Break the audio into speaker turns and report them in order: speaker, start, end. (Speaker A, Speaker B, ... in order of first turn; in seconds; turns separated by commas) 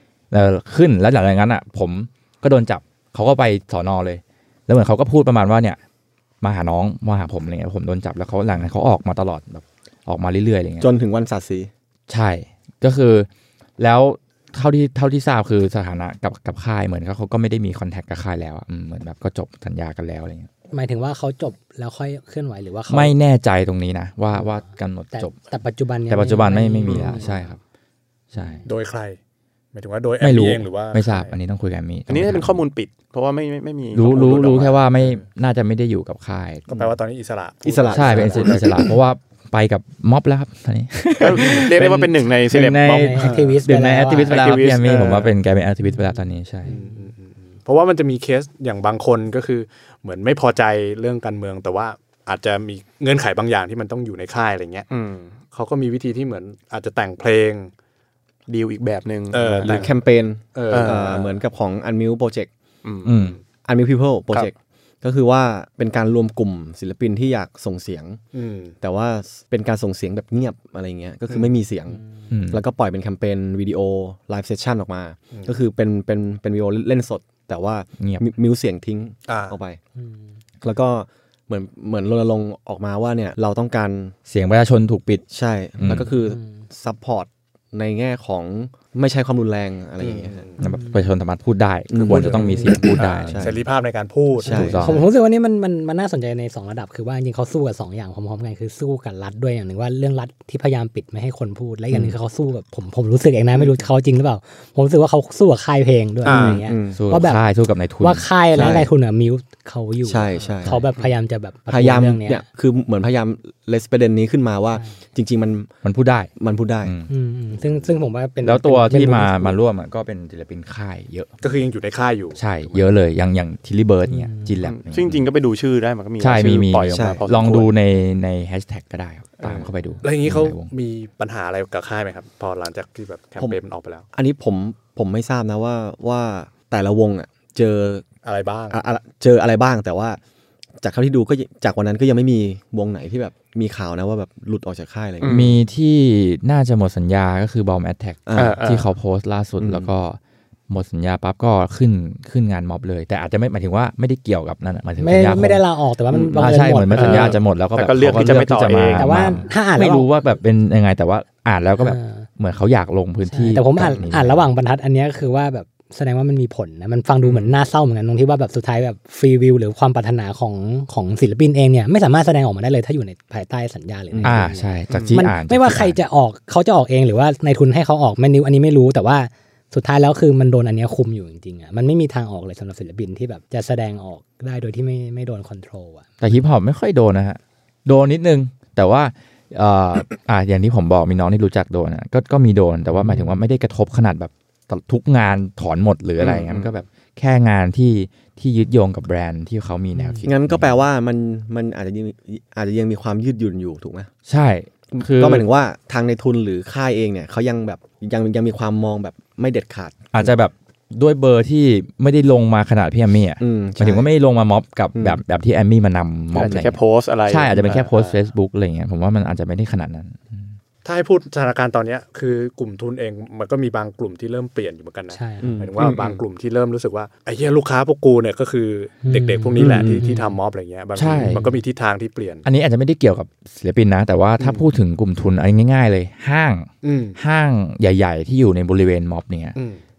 Speaker A: 0.3-5.8, Speaker A: 6.4-10.9, Speaker B: 10.8-11.7, Speaker A: 12.1-20.5, Speaker C: 20.7-23.1, Speaker A: 22.9-25.4, Speaker C: 25.1-27.5, Speaker A: 26.1-27.6, Speaker D: 26.9-27.2, Speaker A: 28.3-28.6, Speaker C: 28.3-28.6, Speaker D: 28.6-29.2, Speaker D: 29.7-31.3, Speaker A: 30.2-32.6, Speaker E: 32.1-34.9, Speaker A: 33.9-36.7, Speaker D: 36.7-38.8, Speaker B: 37.6-38.9, Speaker A: 37.9-46.7, Speaker E: 41.2-43.4, Speaker C: 42.9-44.3, Speaker E: 44.2-45.3, Speaker C: 46.6-47.1, Speaker D: 46.7-54.9, Speaker E: 54.9-55.4, Speaker D: 55.5-57.7, Speaker E: 58.5-59.9, Speaker D: 59.3-60.0, Speaker B: 59.6-62.5, Speaker D: 60.5-61.4, Speaker E: 60.7-61.2, Speaker E: 62.8-63.4, Speaker A: 63.0-63.4, Speaker B: 63.6-68.2, Speaker D: 68.3-68.7, Speaker B: 68.8-79.8, Speaker A: 72.3-72.6, Speaker A: 78.0-78.3, Speaker D: 79.3-79.5, Speaker B: 80.6-84.1, Speaker A: 84.3-85.2, Speaker B: 85.3-90.4, Speaker A: 85.8-86.1, Speaker C: 86.2-86.6, Speaker D: 90.0-90.6, Speaker A: 90.6-93.6, Speaker C: 90.6-91.1, Speaker B: 91.9-93.6, Speaker D: 92.0-94.8, Speaker B: 94.4-95.0, Speaker A: 94.4-95.0, Speaker C: 94.5-107.4, Speaker D: 106.2-106.6, Speaker B: 106.2-107.0, Speaker A: 106.9-108.2, Speaker C: 108.0-112.4, Speaker B: 108.5-108.9, Speaker B: 110.0-110.8, Speaker A: 110.6-110.9, Speaker B: 111.7-115.7, Speaker A: 115.8-116.3, Speaker B: 116.4-116.9, Speaker A: 116.8-117.1, Speaker C: 117.1-119.6, Speaker A: 118.4-121.3, Speaker D: 121.4-122.9, Speaker A: 122.3-125.3, Speaker C: 124.1-124.5, Speaker E: 124.6-127.7, Speaker A: 126.2-130.7, Speaker B: 126.9-127.2, Speaker B: 129.4-129.7, Speaker D: 130.0-134.1, Speaker B: 134.1-138.1, Speaker D: 138.2-138.8, Speaker B: 138.7-140.2, Speaker B: 140.8-145.5, Speaker E: 145.2-145.6, Speaker A: 145.2-164.4, Speaker B: 148.3-148.6, Speaker E: 148.3-148.9, Speaker B: 149.6-149.9, Speaker C: 155.0-157.3, Speaker E: 156.9-159.4, Speaker C: 158.9-160.1, Speaker C: 161.8-162.2, Speaker C: 163.3-186.1, Speaker B: 174.1-174.5, Speaker A: 174.2-176.0, Speaker E: 174.9-175.2, Speaker A: 186.2-200.8, Speaker C: 193.0-193.4, Speaker E: 196.2-196.7, Speaker C: 199.9-200.2, Speaker B: 200.2-204.1, Speaker A: 204.2-205.4, Speaker B: 204.9-210.0, Speaker A: 210.1-220.5, Speaker B: 213.4-214.1, Speaker E: 216.3-218.2, Speaker D: 220.8-232.4, Speaker C: 225.1-225.5, Speaker B: 225.4-225.9, Speaker E: 225.8-226.2, Speaker C: 229.0-230.4, Speaker B: 229.6-230.0, Speaker A: 230.9-231.4, Speaker C: 231.1-231.6, Speaker A: 232.4-239.6, Speaker D: 234.4-234.6, Speaker D: 236.8-237.2, Speaker D: 239.5-239.8